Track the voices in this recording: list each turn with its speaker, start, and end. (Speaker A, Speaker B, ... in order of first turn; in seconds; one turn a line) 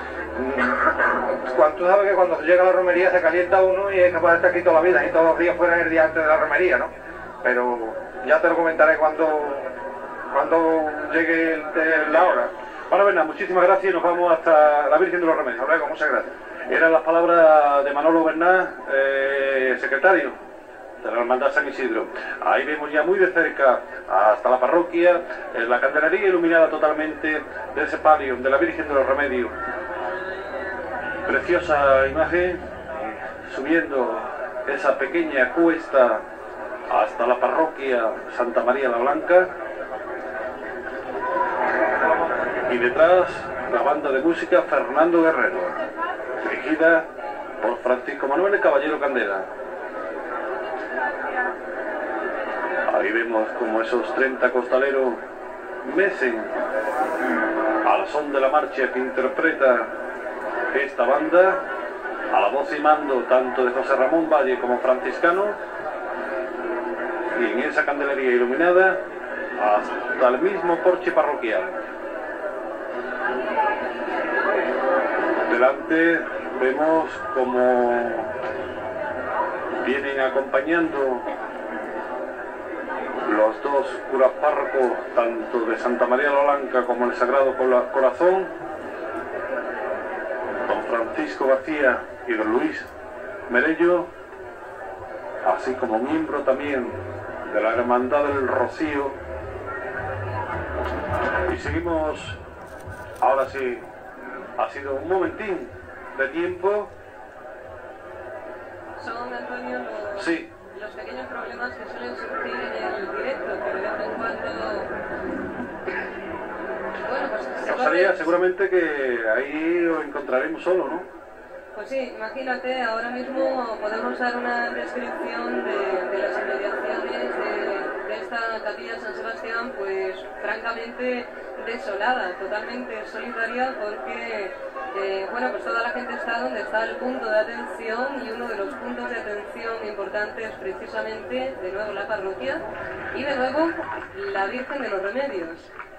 Speaker A: 0.3-9.7
Speaker A: 10.3-12.5
Speaker B: 11.8-12.4
Speaker B: 12.9-15.6
Speaker A: 15.6-16.3
Speaker B: 16.7-20.4
Speaker B: 21.0-29.5
Speaker B: 31.2-32.6
Speaker B: 33.4-36.2
Speaker B: 36.9-39.5
Speaker B: 42.6-45.8
Speaker B: 46.4-47.0
Speaker B: 47.6-49.5
Speaker B: 52.9-55.2
Speaker B: 55.8-56.5
Speaker B: 57.8-59.9
Speaker B: 60.7-61.6
Speaker B: 62.3-65.6
Speaker B: 67.3-69.0
Speaker B: 69.6-71.8
Speaker B: 75.5-78.3
Speaker B: 79.8-81.3
Speaker B: 83.2-88.5
Speaker B: 90.7-92.9
Speaker B: 93.5-94.1
Speaker B: 95.4-99.2
Speaker B: 101.5-102.4
Speaker B: 103.2-103.9
Speaker B: 104.6-106.9
Speaker C: 109.0-114.9
Speaker B: 110.2-110.5
Speaker C: 117.0-118.3
Speaker B: 117.6-121.1
Speaker C: 121.7-145.7